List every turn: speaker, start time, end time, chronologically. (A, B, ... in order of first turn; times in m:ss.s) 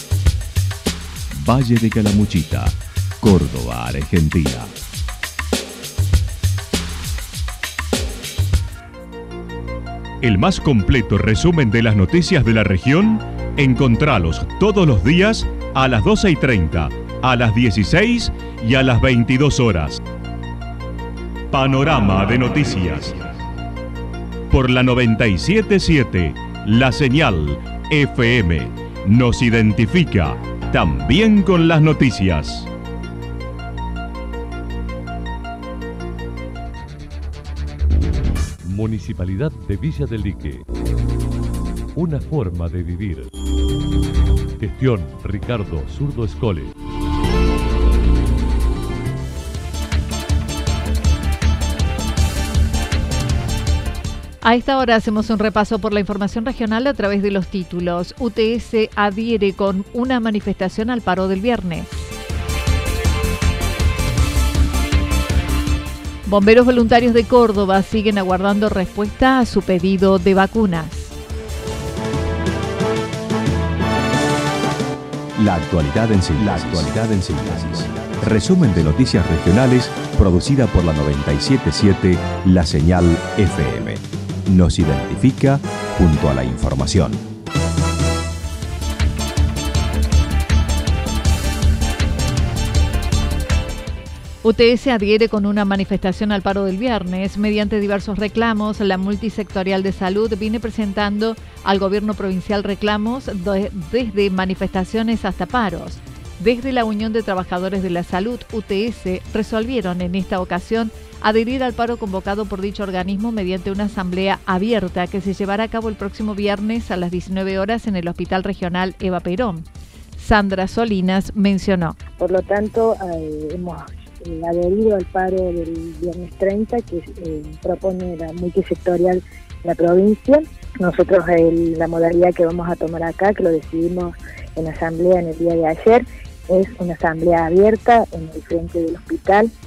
0:01.3-0:04.7 A
0:10.2-0:20.0 A
0:21.5-0:23.2 A
0:24.5-0:32.7 A
0:38.6-0:40.6 B
0:41.9-0:43.3 B
0:44.6-0:46.7 B
0:54.4-1:02.1 C
1:06.2-1:11.1 C
1:15.4-1:27.2 A
1:34.4-2:02.0 C
2:02.2-2:19.5 D